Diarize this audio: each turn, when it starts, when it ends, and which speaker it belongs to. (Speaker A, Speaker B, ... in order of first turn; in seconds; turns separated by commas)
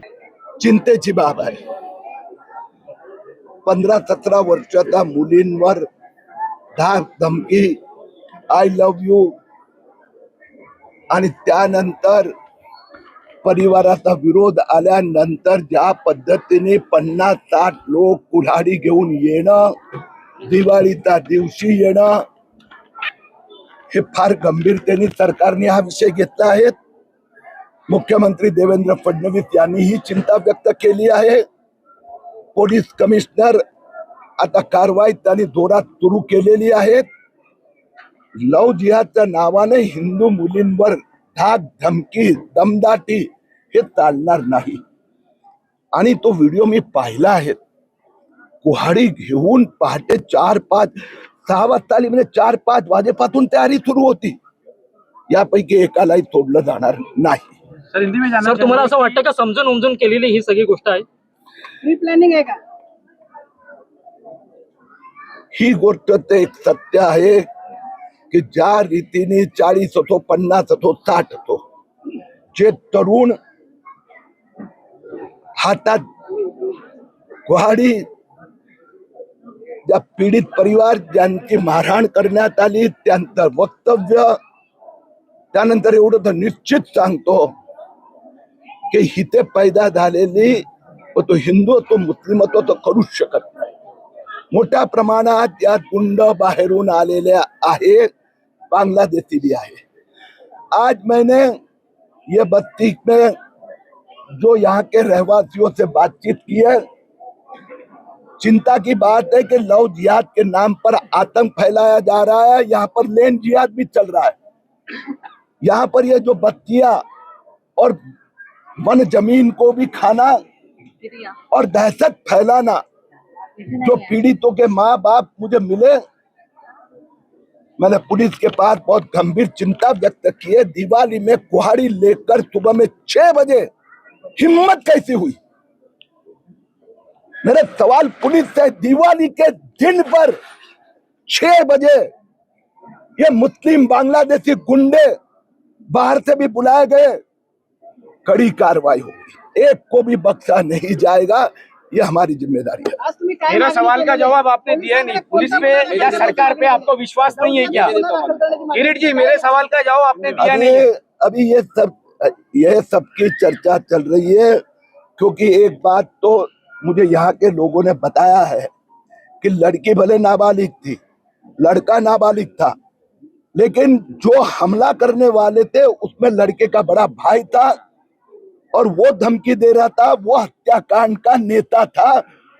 Speaker A: 0.6-1.6, Speaker A: 3.6-5.8, Speaker A: 6.8-7.8, Speaker A: 8.5-9.3, Speaker A: 11.1-12.3, Speaker A: 13.4-19.8, Speaker A: 20.4-22.2, Speaker A: 23.9-26.7, Speaker A: 27.9-31.4, Speaker A: 32.5-33.6, Speaker A: 34.4-37.0, Speaker A: 38.4-44.8, Speaker A: 45.9-47.6, Speaker A: 48.6-54.4, Speaker A: 55.3-57.5, Speaker B: 58.4-61.0, Speaker C: 58.5-58.8, Speaker D: 61.8-62.6, Speaker A: 65.5-67.5, Speaker A: 68.3-71.6, Speaker A: 72.5-73.3, Speaker A: 75.6-76.0, Speaker A: 77.5-78.0, Speaker A: 79.9-84.3, Speaker A: 85.5-87.5, Speaker A: 88.9-90.6, Speaker A: 91.1-93.7, Speaker A: 94.5-98.1, Speaker A: 98.7-99.8, Speaker A: 100.7-101.5, Speaker A: 102.3-103.3, Speaker A: 104.4-106.8, Speaker A: 108.4-114.3, Speaker A: 115.6-117.0, Speaker A: 118.8-120.4, Speaker A: 121.5-122.8, Speaker A: 123.6-126.0, Speaker A: 127.8-133.7, Speaker A: 134.4-135.4, Speaker A: 137.4-140.3, Speaker A: 141.3-142.1, Speaker A: 143.2-145.1, Speaker A: 145.9-147.2, Speaker A: 148.2-152.9, Speaker D: 153.0-159.6, Speaker C: 153.5-160.8, Speaker A: 160.3-164.6, Speaker A: 165.2-168.7, Speaker A: 169.4-171.0, Speaker A: 171.6-172.7, Speaker A: 173.6-177.7, Speaker A: 178.7-182.2